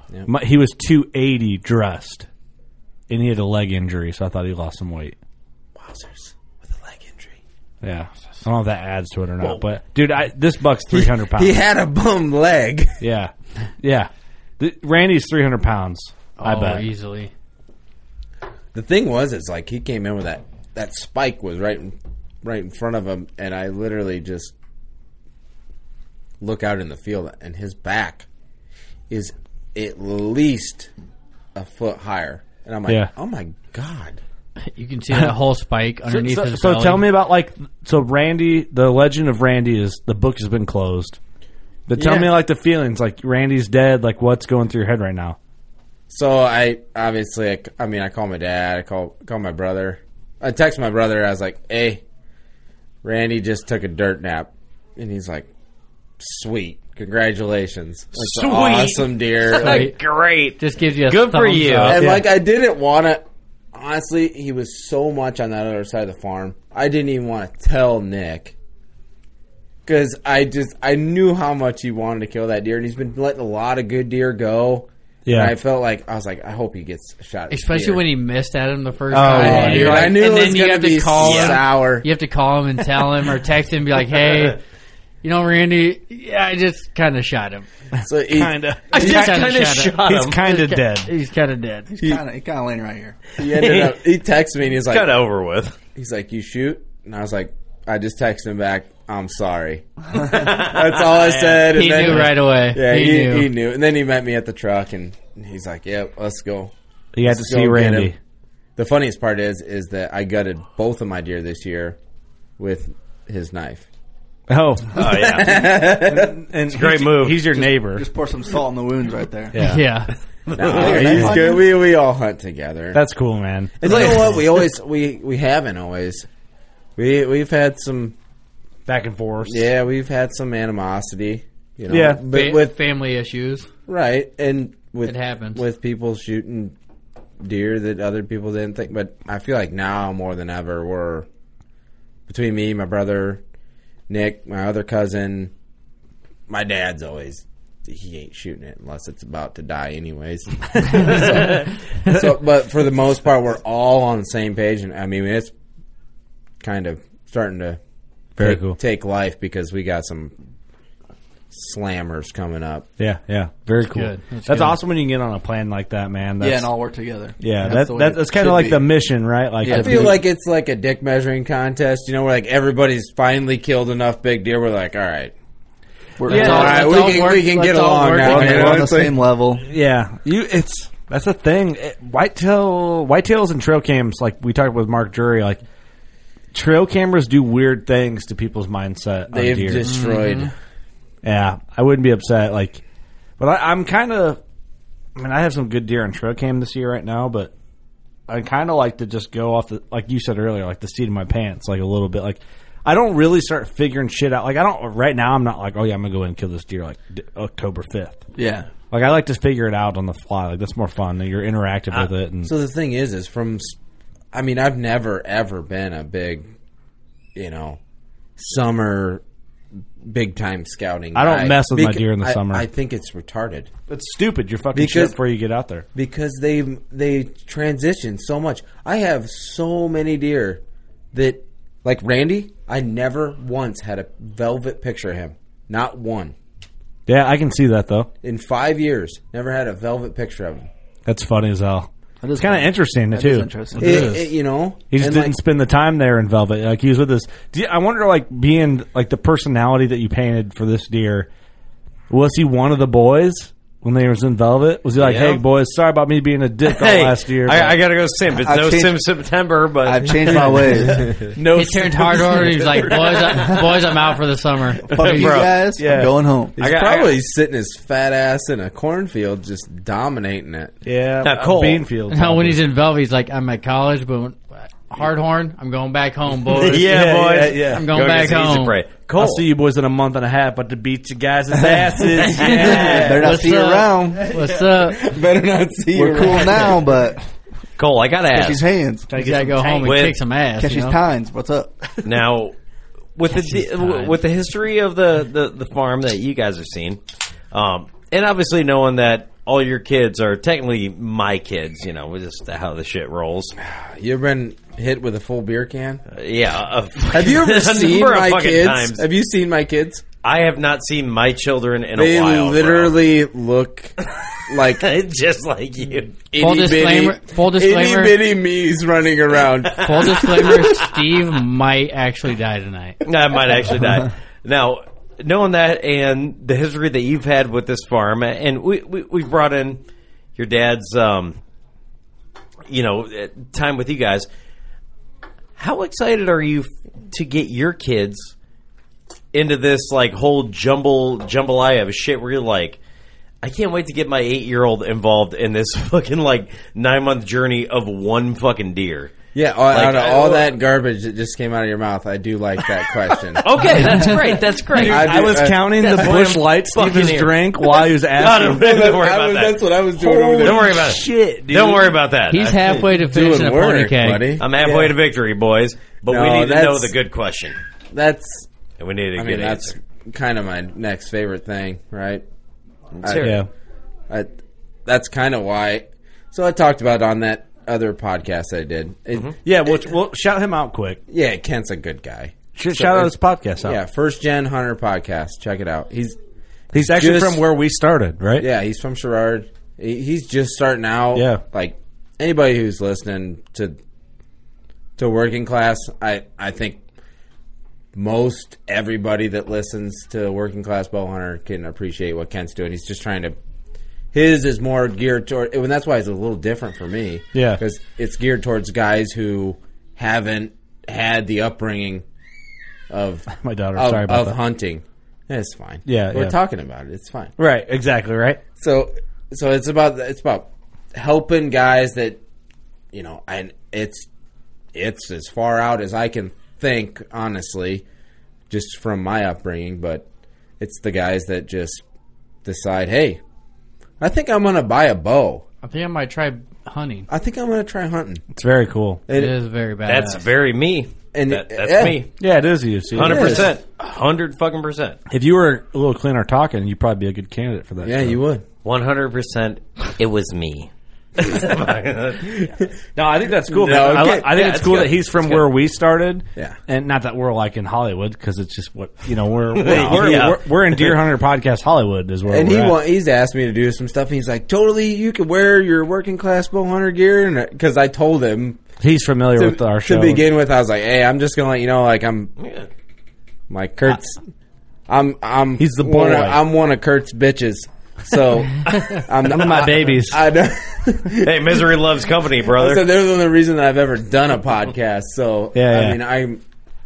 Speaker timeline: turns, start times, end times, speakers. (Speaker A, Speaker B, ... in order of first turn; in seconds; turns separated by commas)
Speaker A: 0.3-2.3, Speaker A: 3.1-5.2, Speaker B: 5.8-7.4, Speaker A: 7.8-11.6, Speaker B: 10.9-13.0, Speaker A: 13.0-16.9, Speaker C: 16.4-17.3, Speaker B: 18.7-24.5, Speaker B: 26.4-28.2, Speaker B: 29.1-30.9, Speaker B: 31.5-34.2, Speaker C: 34.6-37.1, Speaker A: 36.1-41.2, Speaker A: 41.9-45.4, Speaker B: 42.0-42.3, Speaker B: 46.1-52.0, Speaker B: 53.0-55.5, Speaker B: 56.2-59.9, Speaker D: 58.1-62.0, Speaker C: 59.6-60.0, Speaker C: 60.6-62.0, Speaker B: 61.8-68.5, Speaker A: 61.9-62.3, Speaker B: 69.8-78.0, Speaker A: 75.2-75.5, Speaker C: 77.5-84.6, Speaker A: 79.1-80.1, Speaker B: 79.2-82.0, Speaker D: 81.2-81.6, Speaker C: 85.2-87.7, Speaker B: 88.0-88.6, Speaker A: 88.3-89.5, Speaker D: 88.9-90.4, Speaker C: 88.9-91.9, Speaker A: 90.0-91.1, Speaker E: 91.9-93.3, Speaker B: 93.4-95.1, Speaker D: 93.4-94.0, Speaker D: 94.9-95.8, Speaker B: 95.9-108.1, Speaker D: 100.2-101.7, Speaker C: 101.7-103.5, Speaker A: 107.1-108.2, Speaker B: 108.8-112.0, Speaker B: 112.6-113.9, Speaker A: 114.5-118.0, Speaker D: 114.9-115.8, Speaker B: 115.1-116.4, Speaker D: 116.7-117.4, Speaker E: 117.5-119.6, Speaker A: 119.5-119.8, Speaker C: 119.6-120.1, Speaker D: 120.5-121.0, Speaker B: 120.5-123.0, Speaker E: 120.7-121.6, Speaker A: 120.9-121.4, Speaker A: 122.9-124.2, Speaker B: 123.8-126.3, Speaker D: 123.8-124.5, Speaker B: 127.0-128.2, Speaker A: 128.9-129.7, Speaker B: 129.4-132.8, Speaker A: 131.9-132.2, Speaker C: 132.2-133.7, Speaker B: 133.9-136.7, Speaker C: 135.0-135.6, Speaker B: 137.4-141.3, Speaker B: 142.3-143.4, Speaker B: 144.1-145.5, Speaker B: 146.5-155.5, Speaker B: 156.6-157.8, Speaker A: 158.4-158.8, Speaker B: 158.4-160.3, Speaker B: 161.5-162.9, Speaker A: 163.0-166.7, Speaker C: 163.8-164.8, Speaker E: 166.4-168.9, Speaker A: 167.4-170.1, Speaker E: 169.6-170.2, Speaker B: 169.7-175.3, Speaker E: 176.2-177.1, Speaker A: 176.3-177.0, Speaker C: 176.3-178.7, Speaker B: 176.3-179.1, Speaker A: 178.2-179.1, Speaker E: 178.3-179.6, Speaker A: 179.6-185.6, Speaker A: 186.5-189.8, Speaker B: 189.3-190.5, Speaker C: 189.8-190.5, Speaker A: 191.2-192.8, Speaker A: 193.4-194.4, Speaker A: 195.2-197.5, Speaker A: 198.3-208.2, Speaker E: 208.3-208.7, Speaker A: 208.9-212.5, Speaker B: 212.4-213.8, Speaker B: 214.3-216.5, Speaker B: 217.3-217.8, Speaker B: 218.4-219.2, Speaker B: 220.0-223.7, Speaker A: 221.1-222.7, Speaker A: 223.9-225.8, Speaker B: 224.7-225.2, Speaker B: 225.9-230.6, Speaker B: 231.1-236.3, Speaker A: 237.1-238.1, Speaker B: 238.2-240.7, Speaker A: 241.1-244.3, Speaker E: 242.2-244.1, Speaker B: 243.8-245.3, Speaker A: 244.9-251.3, Speaker A: 252.1-257.8, Speaker D: 255.0-255.4, Speaker D: 256.6-260.4, Speaker E: 258.4-259.0, Speaker E: 259.8-261.1, Speaker A: 260.2-262.9, Speaker B: 261.0-261.3, Speaker C: 261.5-265.4, Speaker D: 263.1-263.4, Speaker E: 264.9-266.6, Speaker D: 265.0-265.6, Speaker A: 265.8-266.1, Speaker B: 266.6-270.8, Speaker D: 266.6-267.2, Speaker A: 270.8-272.6, Speaker D: 271.2-271.8, Speaker C: 272.1-277.1, Speaker D: 276.5-279.4, Speaker A: 276.8-277.9, Speaker C: 277.6-278.8, Speaker A: 279.2-283.5, Speaker D: 282.4-283.1, Speaker C: 282.4-285.0, Speaker E: 282.9-284.3, Speaker B: 284.7-286.8, Speaker E: 285.9-287.2, Speaker D: 287.8-288.6, Speaker E: 288.3-289.2, Speaker A: 289.1-289.9, Speaker C: 289.1-291.0, Speaker D: 289.8-290.2, Speaker E: 290.6-291.9, Speaker D: 292.0-292.6, Speaker D: 293.1-297.0, Speaker C: 293.3-294.1, Speaker D: 297.5-303.5, Speaker B: 303.6-306.0, Speaker D: 306.1-309.1, Speaker B: 307.1-310.0, Speaker D: 310.2-313.0, Speaker B: 311.9-313.9, Speaker B: 314.5-314.9, Speaker D: 314.5-316.2, Speaker B: 316.3-320.4, Speaker C: 316.4-318.2, Speaker C: 319.8-323.0, Speaker D: 319.9-320.6, Speaker D: 323.0-329.8, Speaker D: 330.4-331.4, Speaker D: 332.7-334.3, Speaker D: 335.6-338.3, Speaker D: 339.3-342.8, Speaker D: 343.4-349.1, Speaker B: 349.3-353.4, Speaker D: 349.7-350.6, Speaker D: 353.4-359.7, Speaker A: 353.8-354.1, Speaker B: 354.7-356.2, Speaker A: 354.8-358.7, Speaker B: 358.3-360.7, Speaker A: 359.9-362.0, Speaker D: 360.4-362.8, Speaker C: 362.3-364.4, Speaker B: 362.7-364.5, Speaker D: 364.4-367.6, Speaker A: 364.6-364.9, Speaker B: 366.1-366.9, Speaker B: 367.9-368.5, Speaker D: 368.8-369.8, Speaker B: 369.1-372.2, Speaker D: 372.9-373.4, Speaker B: 373.0-373.4, Speaker A: 373.2-373.5, Speaker B: 374.1-379.9, Speaker A: 379.4-381.0, Speaker B: 381.1-386.2, Speaker A: 382.6-383.8, Speaker A: 386.7-388.5, Speaker B: 386.7-387.4, Speaker B: 388.4-393.8, Speaker A: 391.1-391.4, Speaker B: 395.0-396.8, Speaker B: 397.9-403.4, Speaker B: 404.1-412.0, Speaker A: 407.3-407.6, Speaker B: 412.9-417.3, Speaker A: 413.3-414.4, Speaker A: 415.9-416.4, Speaker A: 417.4-418.4, Speaker B: 418.6-422.2, Speaker B: 422.9-424.1, Speaker B: 424.7-427.8, Speaker B: 428.5-430.0, Speaker B: 430.6-431.8, Speaker B: 432.4-433.2, Speaker B: 434.0-435.4, Speaker C: 435.6-437.1, Speaker B: 437.1-438.2, Speaker A: 438.3-439.0, Speaker B: 439.1-439.4, Speaker C: 439.1-440.2, Speaker D: 439.9-442.1, Speaker B: 441.1-442.0, Speaker A: 442.2-443.5, Speaker D: 442.9-445.0, Speaker B: 442.9-443.5, Speaker A: 445.1-448.1, Speaker B: 447.8-448.4, Speaker D: 448.6-452.3, Speaker A: 452.9-462.8, Speaker B: 453.5-454.5, Speaker D: 454.2-455.4, Speaker D: 459.5-461.0, Speaker B: 459.7-460.0, Speaker B: 462.3-468.6, Speaker A: 468.8-470.2, Speaker B: 469.3-472.3, Speaker D: 472.4-472.7, Speaker B: 473.5-474.2, Speaker B: 474.9-481.7, Speaker A: 475.6-476.4, Speaker A: 479.2-480.2, Speaker D: 481.2-482.9, Speaker B: 482.4-486.4, Speaker A: 485.5-486.0